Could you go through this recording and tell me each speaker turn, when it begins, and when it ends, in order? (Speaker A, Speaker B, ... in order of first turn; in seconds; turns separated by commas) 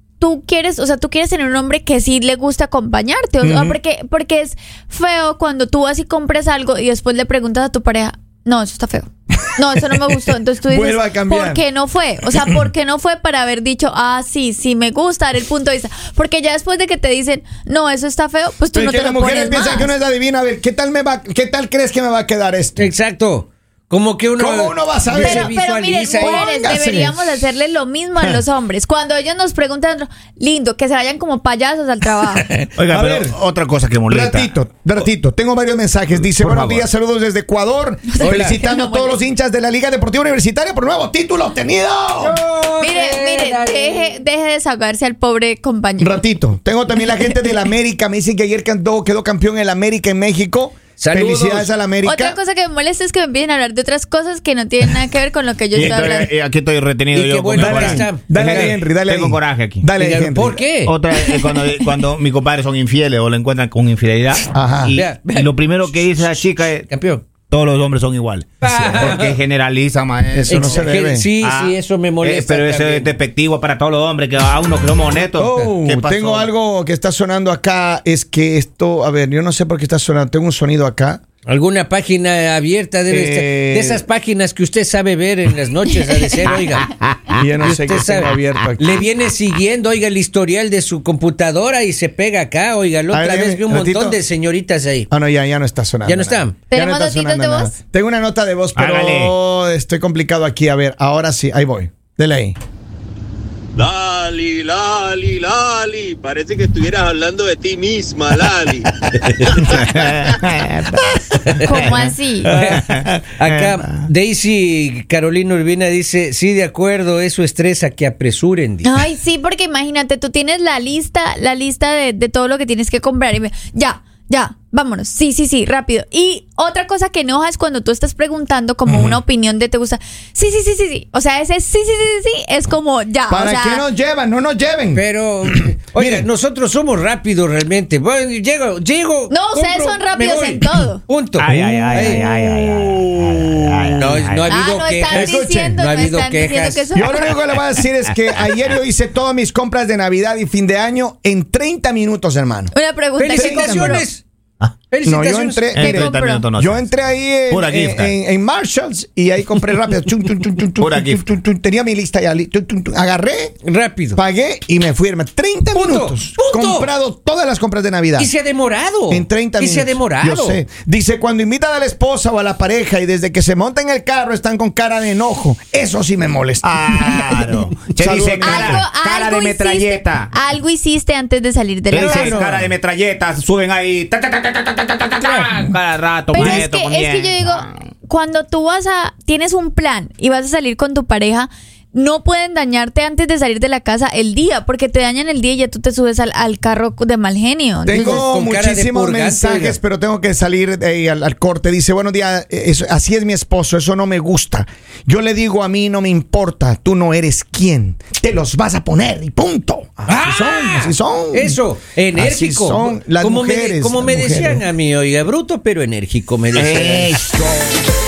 Speaker A: 0.2-19.9, Speaker B: 3.4-3.8, Speaker B: 10.6-11.6, Speaker B: 18.7-22.9, Speaker C: 22.8-26.5, Speaker B: 24.4-25.5, Speaker A: 25.1-32.5, Speaker B: 26.2-27.4, Speaker D: 32.8-34.5, Speaker B: 32.9-33.4, Speaker B: 34.1-42.4, Speaker D: 36.2-36.9, Speaker A: 38.1-39.2, Speaker C: 38.2-38.6, Speaker C: 42.2-44.1, Speaker A: 42.8-46.2, Speaker B: 46.0-52.4, Speaker C: 51.0-51.7, Speaker A: 52.0-56.3, Speaker D: 55.7-59.9, Speaker C: 57.1-58.8, Speaker B: 57.5-60.6, Speaker C: 60.0-60.9, Speaker D: 60.8-66.9, Speaker A: 61.1-61.6, Speaker B: 64.5-65.0, Speaker C: 64.9-67.3, Speaker D: 67.4-70.9, Speaker C: 68.6-69.4, Speaker B: 70.3-71.3, Speaker C: 70.5-73.1, Speaker D: 71.4-76.5, Speaker B: 75.4-81.2, Speaker C: 75.4-75.7, Speaker C: 81.5-87.0, Speaker B: 83.1-84.0, Speaker B: 87.3-88.9, Speaker C: 87.6-95.1, Speaker B: 93.1-94.2, Speaker B: 95.1-102.6, Speaker C: 96.1-96.6, Speaker A: 96.7-97.7, Speaker D: 98.8-99.3, Speaker E: 103.8-108.9, Speaker C: 109.2-109.5, Speaker D: 109.7-111.2, Speaker C: 111.4-119.0, Speaker A: 111.6-112.5, Speaker D: 111.7-112.0, Speaker D: 112.8-113.8, Speaker A: 118.8-133.9, Speaker B: 128.9-129.2, Speaker B: 133.3-136.3, Speaker C: 134.9-142.2, Speaker A: 139.3-141.0, Speaker D: 141.4-144.6, Speaker B: 141.9-144.0, Speaker C: 144.0-146.9, Speaker A: 144.5-147.4, Speaker B: 145.1-145.8, Speaker B: 146.9-152.7, Speaker A: 152.7-154.1, Speaker C: 153.2-154.2, Speaker B: 153.3-154.0, Speaker C: 154.9-155.7, Speaker B: 155.0-163.6, Speaker D: 155.7-156.9, Speaker A: 155.8-156.5, Speaker D: 157.5-158.2, Speaker D: 160.8-161.3, Speaker C: 163.7-164.2, Speaker B: 164.2-168.3, Speaker C: 165.7-166.9, Speaker C: 168.2-170.6, Speaker B: 169.1-176.8, Speaker D: 176.6-180.3, Speaker B: 178.0-178.8, Speaker A: 178.4-182.4, Speaker D: 181.9-187.8, Speaker C: 182.0-182.7, Speaker C: 185.2-185.6, Speaker A: 186.3-198.2, Speaker B: 186.4-186.6, Speaker B: 197.9-211.6, Speaker C: 197.9-199.8, Speaker C: 210.1-217.2, Speaker B: 212.1-214.7, Speaker D: 216.5-217.7